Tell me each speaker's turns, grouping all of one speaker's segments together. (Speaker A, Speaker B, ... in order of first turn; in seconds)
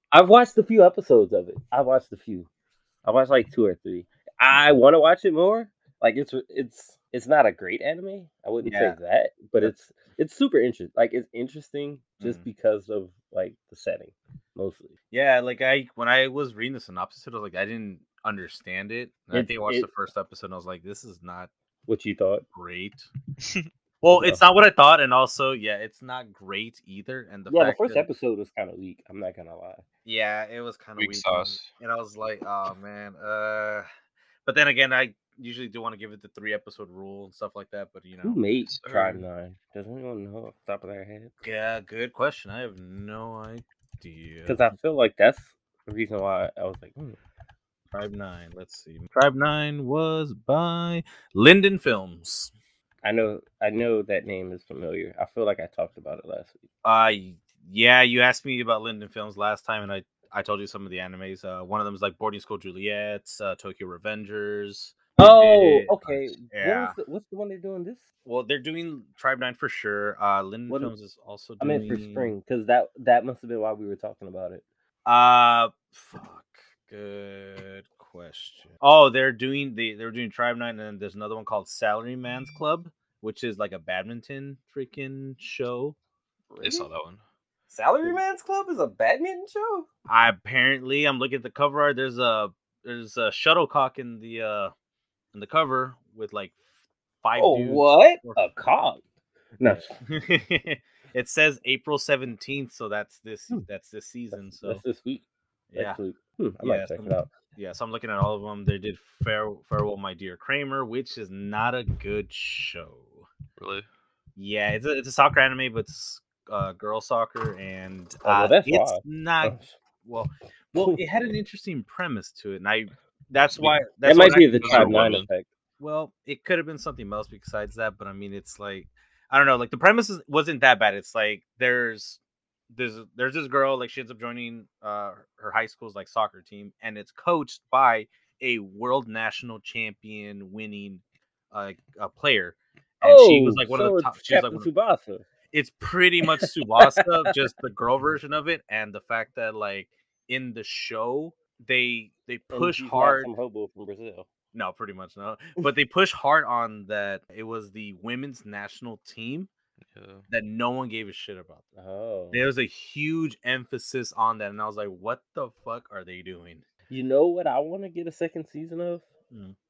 Speaker A: 0.1-2.5, 3.0-14.9, 19.3-19.9, 21.9-22.4, 24.1-24.4, 27.5-29.8, 38.2-41.3, 44.5-47.2, 53.0-56.6, 65.2-68.0, 71.6-74.6, 86.5-86.9, 87.7-89.9, 97.4-99.0, 99.6-99.9, 104.3-105.2, 105.8-107.3, 118.2-119.8, 124.0-125.5, 143.0-145.2, 146.4-147.4, 152.5-154.3, 161.8-162.4, 166.9-169.1
Speaker B: 8.7-9.0, 12.2-12.5, 15.1-21.5, 22.6-23.1, 24.0-28.1, 30.1-33.9, 34.5-38.4, 41.4-44.6, 47.9-52.5, 56.8-67.0, 68.2-72.3, 75.1-86.0, 90.1-94.7, 95.3-96.6, 97.2-98.4, 99.7-104.8, 105.7-106.0, 106.6-113.3, 114.4-125.2, 125.8-132.2, 132.7-144.7, 145.5-153.3, 154.5-159.5, 160.3-161.6, 162.3-166.6
Speaker C: 23.4-23.7, 31.0-31.7, 38.7-39.2, 86.6-87.2, 113.6-113.9, 123.6-125.3, 159.9-160.3